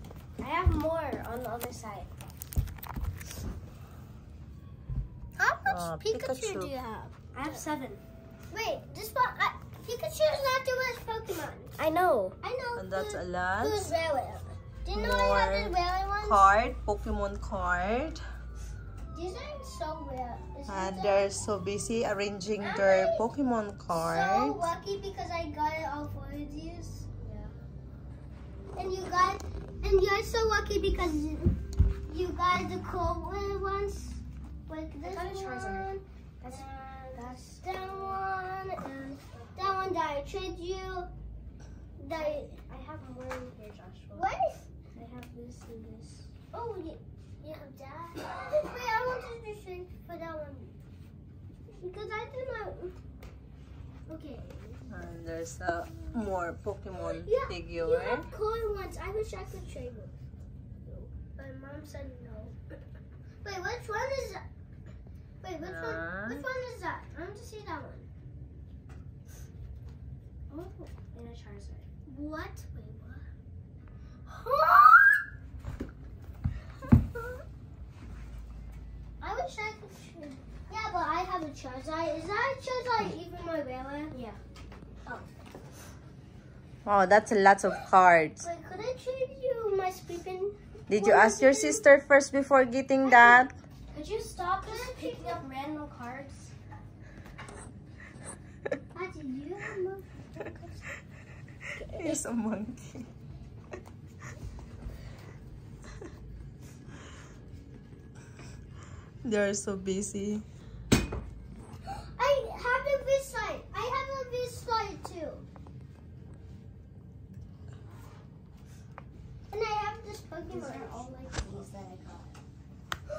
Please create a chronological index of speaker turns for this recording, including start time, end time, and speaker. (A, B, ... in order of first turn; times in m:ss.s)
0:00.4-0:02.1 A
0:05.4-0:07.6 B
0:05.6-0:06.7 C
0:07.3-0:08.0 A
0:08.5-0:11.8 B
0:11.8-0:12.4 A
0:12.4-0:16.5 B
0:12.8-0:13.9 C
0:14.9-0:18.2 C
0:19.1-0:21.4 B
0:20.7-0:24.6 C
0:22.6-0:23.2 B
0:23.9-0:27.1 B
0:27.2-0:27.6 A
0:28.7-0:41.1 B
0:35.0-0:38.2 A
0:39.1-0:40.0 A
0:42.0-0:42.5 B
0:42.1-0:44.3 A
0:44.1-0:44.6 B
0:44.9-0:46.3 A
0:46.5-0:50.7 B
0:51.7-0:53.0 B
0:54.1-0:55.1 B
0:54.9-0:58.3 C
0:56.9-1:00.2 B
1:00.8-1:02.6 B
1:03.4-1:04.4 B
1:05.4-1:08.1 B
1:05.6-1:06.4 C
1:10.5-1:11.8 A
1:12.0-1:13.3 B
1:14.2-1:15.2 B
1:16.9-1:17.4 B
1:19.2-1:24.1 B
1:24.1-1:24.4 A
1:26.8-1:28.4 C
1:28.4-1:31.9 B
1:30.9-1:33.5 C
1:33.0-1:33.5 B
1:33.9-1:36.5 A
1:34.4-1:35.4 B
1:38.9-1:40.9 B
1:41.8-1:42.2 B
1:41.9-1:43.1 C
1:49.2-1:50.4 C
1:51.9-1:55.4 B
1:59.5-2:01.6 B
2:00.4-2:02.4 A